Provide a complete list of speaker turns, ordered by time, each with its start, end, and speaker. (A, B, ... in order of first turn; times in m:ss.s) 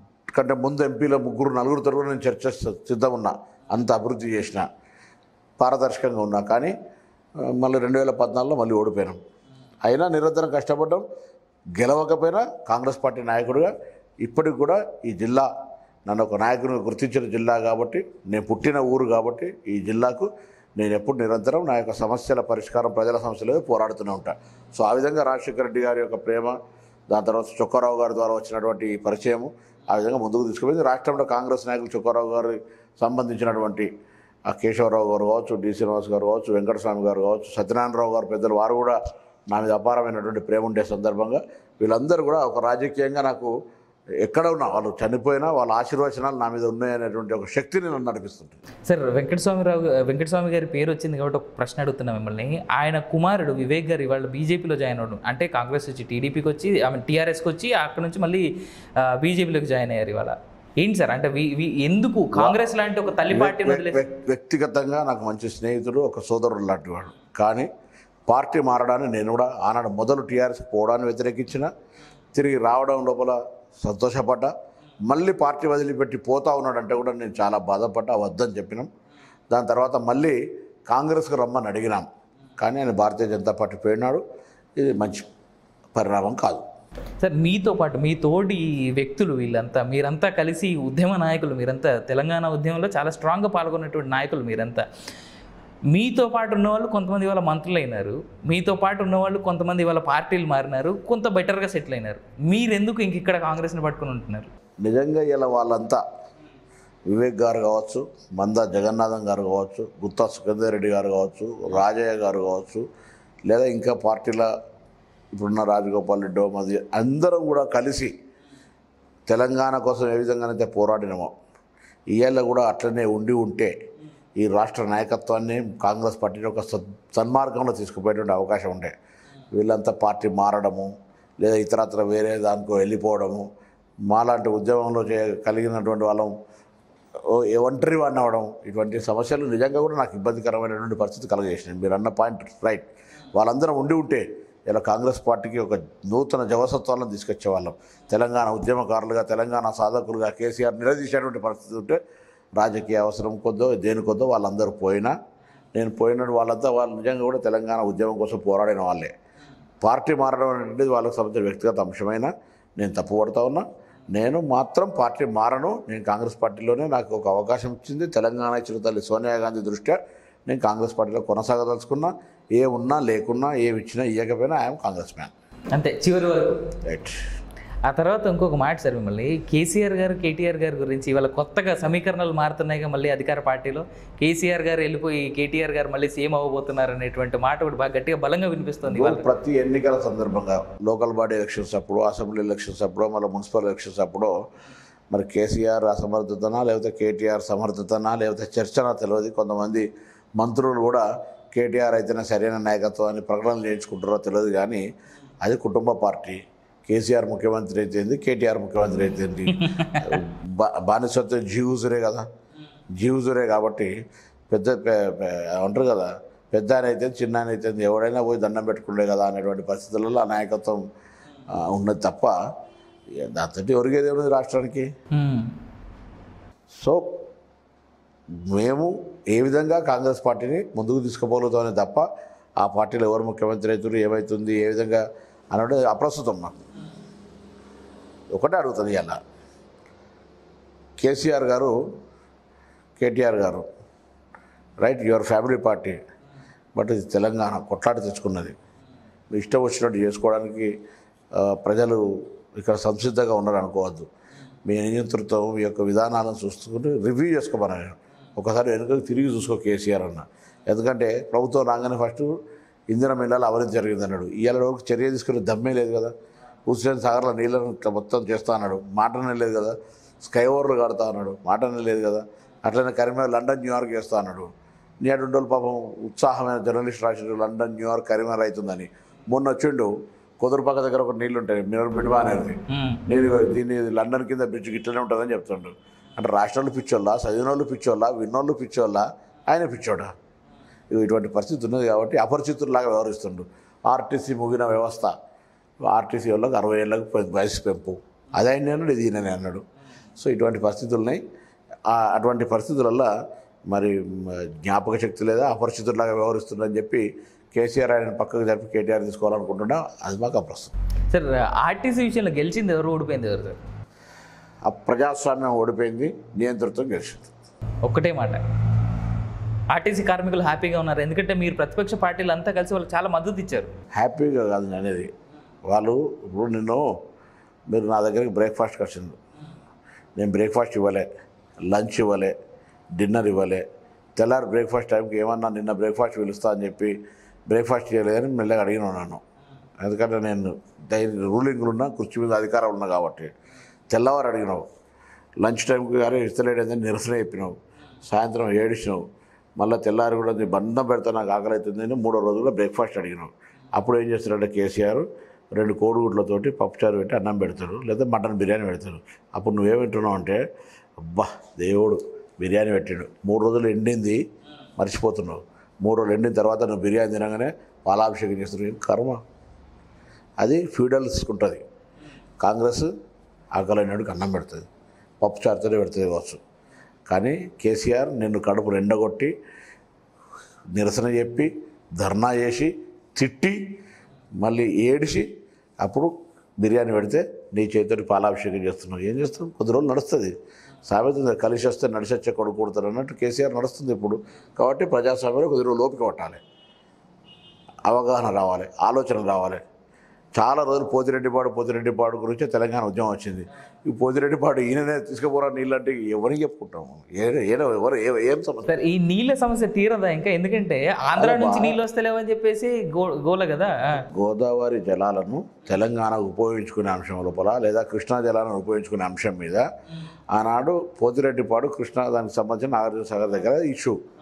0:00.3-0:04.7 A
0:05.6-0:06.7 A
0:07.4-0:09.2 A
0:09.8-0:11.0 A
0:11.8-0:15.5 A
0:16.0-0:26.6 A
0:27.1-0:33.9 A
0:34.5-0:39.0 A
0:39.5-0:43.5 A
0:44.2-0:48.6 A
0:48.8-0:58.5 B
0:59.0-1:04.0 B
1:02.3-1:02.6 A
1:03.3-1:07.7 A
1:08.3-1:11.7 A
1:12.3-1:14.5 A
1:15.0-1:18.9 A
1:19.5-1:22.1 A
1:22.6-1:24.2 A
1:24.8-1:25.3 A
1:25.9-1:26.6 A
1:27.2-1:34.8 B
1:35.9-1:44.5 B
1:44.8-1:46.0 A
1:47.1-1:52.8 A
1:53.5-1:54.5 A
1:55.3-1:58.1 A
1:59.3-2:01.3 A
2:02.1-2:03.7 A
2:04.4-2:08.9 A
2:09.5-2:13.5 A
2:14.1-2:16.3 A
2:17.2-2:32.0 A
2:32.6-2:35.2 A
2:35.7-2:39.1 A
2:39.8-2:55.3 A
2:55.7-2:56.6 B
2:56.8-2:57.2 A
2:57.8-3:09.3 B
3:08.8-3:14.3 A
3:15.1-3:19.9 A
3:20.4-3:24.8 A
3:25.4-3:32.2 A
3:29.5-3:30.2 B
3:33.0-3:33.9 A
3:34.5-3:40.8 A
3:41.5-3:42.3 A
3:43.2-3:44.9 A
3:45.1-3:45.5 B
3:46.7-3:47.2 A
3:48.4-3:52.0 A
3:52.6-3:56.6 A
3:58.3-3:59.2 A
4:01.0-4:01.8 A
4:03.0-4:03.6 A
4:04.8-4:06.0 A
4:06.7-4:08.6 A
4:09.3-4:10.7 A
4:11.3-4:12.0 A
4:12.5-4:14.1 A
4:14.6-4:22.4 A
4:22.9-4:26.1 A
4:26.7-4:34.5 A
4:35.0-4:50.1 A
4:42.7-4:43.0 B
4:50.9-4:55.1 A
4:55.8-4:59.6 A
5:00.2-5:01.2 A
5:01.9-5:03.1 A
5:03.7-5:10.7 A
5:11.1-5:13.6 B
5:14.6-5:17.3 A
5:17.8-5:18.4 B
5:19.7-5:23.7 B
5:23.9-5:25.1 A
5:25.6-5:27.0 A
5:27.7-5:29.2 A
5:30.2-5:31.1 A
5:31.7-5:32.3 A
5:33.0-5:33.6 A
5:34.2-5:37.0 A
5:37.5-5:39.2 A
5:39.8-5:43.3 A
5:43.9-5:44.6 A
5:45.4-5:49.0 A
5:49.6-6:00.4 A
6:01.0-6:04.2 A
6:04.8-6:09.2 A
6:10.4-6:11.6 A
6:12.4-6:12.9 A
6:13.5-6:14.7 A
6:15.2-6:16.4 A
6:17.1-6:19.3 A
6:20.7-6:23.6 A
6:24.4-6:25.3 A
6:25.8-6:30.3 A
6:30.8-6:36.4 A
6:37.9-6:39.6 A
6:40.4-6:48.7 A
6:48.6-6:54.0 B
6:51.1-6:51.8 A
6:54.1-6:59.7 A
7:00.3-7:04.0 A